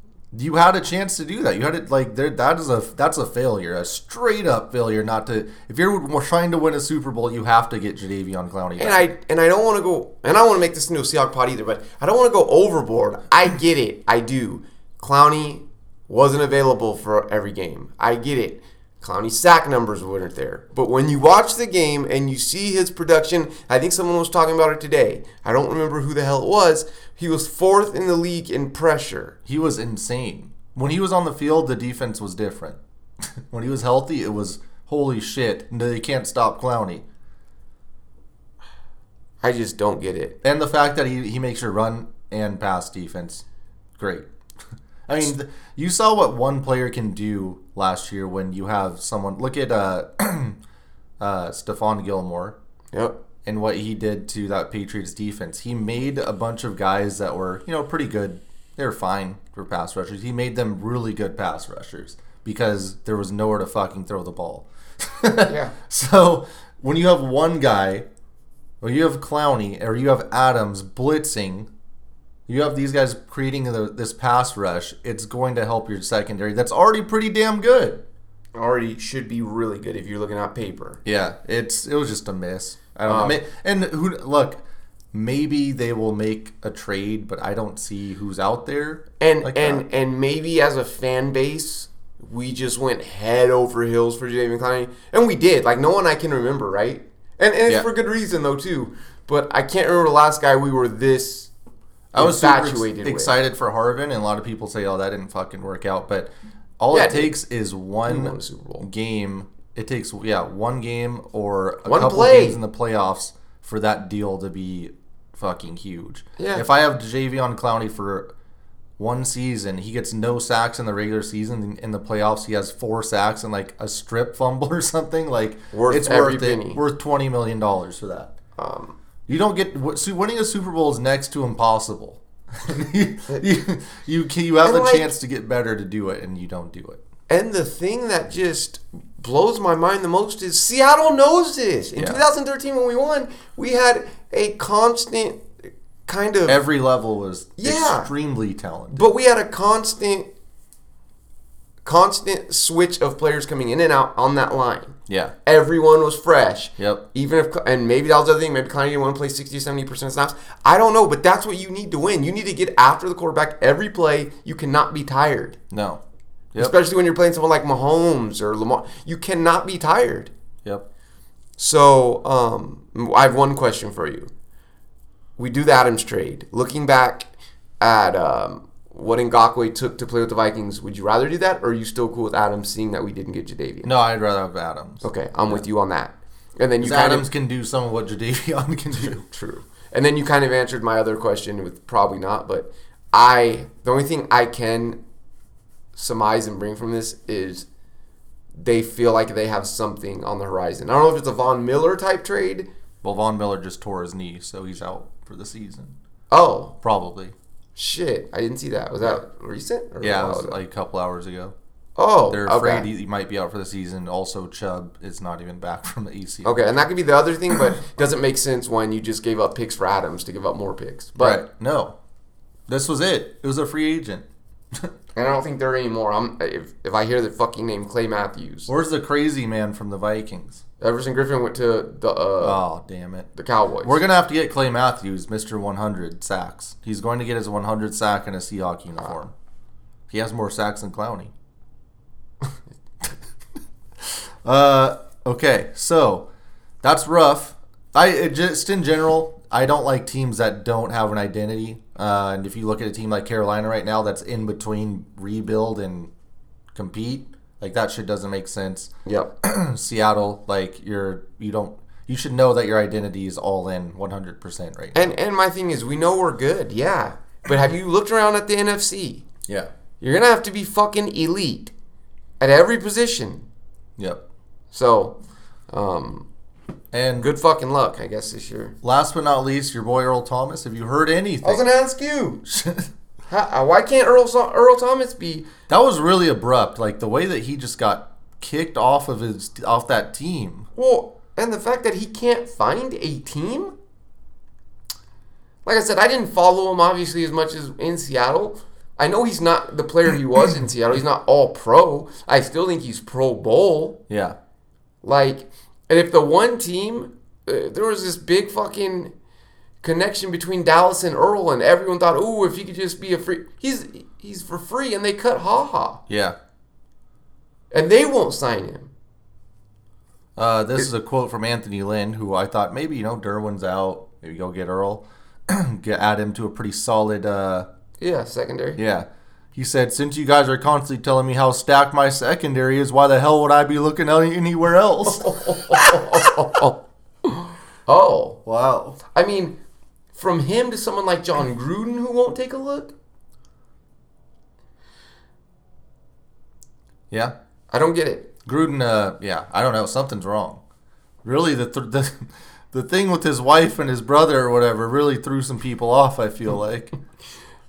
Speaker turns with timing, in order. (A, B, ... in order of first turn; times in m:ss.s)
0:00.3-0:09.0 A
0:08.8-0:29.4 B
0:29.5-0:37.0 A
0:39.4-0:40.4 B
0:40.4-0:43.4 A
0:44.0-0:44.3 A
0:45.1-0:50.6 A
0:51.2-0:52.6 A
0:53.4-1:08.1 A
1:05.5-1:05.7 B
1:08.8-1:11.7 A
1:12.5-1:18.0 A
1:18.6-1:21.0 B
1:21.0-1:24.6 A
1:23.1-1:23.4 B
1:25.1-1:29.8 A
1:29.2-1:41.5 B
1:42.1-1:58.3 A
1:42.2-1:43.4 B
1:46.9-1:47.4 B
1:48.1-1:48.9 B
1:51.8-1:52.6 B
1:56.4-1:56.6 B
1:59.0-2:08.4 A
2:05.7-2:06.8 B
2:08.6-2:09.0 B
2:09.3-2:17.0 A
2:14.6-2:15.1 B
2:17.3-2:25.5 B
2:22.0-2:22.2 A
2:26.1-2:26.6 B
2:26.5-2:29.1 A
2:27.6-2:28.1 B
2:28.9-2:30.3 B
2:31.8-2:45.6 B
2:35.1-2:35.4 A
2:36.8-2:37.0 A
2:45.7-2:46.0 A
2:46.6-2:50.3 B
2:51.6-2:54.3 B
2:55.4-2:57.3 B
2:57.8-3:03.9 B
3:03.8-3:05.6 A
3:05.0-3:07.3 B
3:06.8-3:09.2 A
3:08.9-3:15.0 B
3:16.0-3:17.7 B
3:18.5-3:22.7 B
3:23.0-3:25.9 A
3:26.3-3:26.8 B
3:26.8-3:27.3 A
3:27.8-3:30.6 B
3:30.0-3:31.6 A
3:32.0-3:32.9 B
3:32.3-3:36.6 A
3:36.4-3:41.4 B
3:41.2-3:42.0 A
3:42.7-3:44.9 A
3:45.2-3:48.7 B
3:48.7-3:50.6 A
3:50.8-3:52.6 B
3:52.4-3:53.3 A
3:53.4-3:54.0 B
3:53.8-3:59.3 A
4:00.1-4:01.3 A
4:04.0-4:06.3 A
4:06.8-4:16.1 A
4:16.7-4:25.1 A
4:19.1-4:19.3 B
4:24.9-4:29.3 B
4:30.0-4:31.7 B
4:32.4-4:33.5 B
4:34.0-4:34.2 A
4:34.7-4:35.2 B
4:35.7-4:36.3 B
4:36.9-4:37.3 A
4:37.2-4:38.8 B
4:38.8-4:41.6 A
4:41.4-4:42.4 B
4:42.5-4:42.9 A
4:43.3-4:45.5 B
4:45.7-4:50.7 A
4:50.8-4:53.8 B
4:55.6-5:04.0 B
5:04.1-5:04.4 A
5:05.0-5:09.1 B
5:09.8-5:16.0 B
5:16.1-5:16.4 A
5:17.7-5:18.9 B
5:20.4-5:27.7 A
5:28.0-5:28.8 B
5:28.8-5:36.4 A
5:35.1-5:38.4 B
5:38.4-5:39.0 A
5:39.1-5:39.6 B
5:40.1-5:42.9 B
5:47.7-5:48.3 B
5:48.4-5:50.6 A
5:51.2-5:57.0 A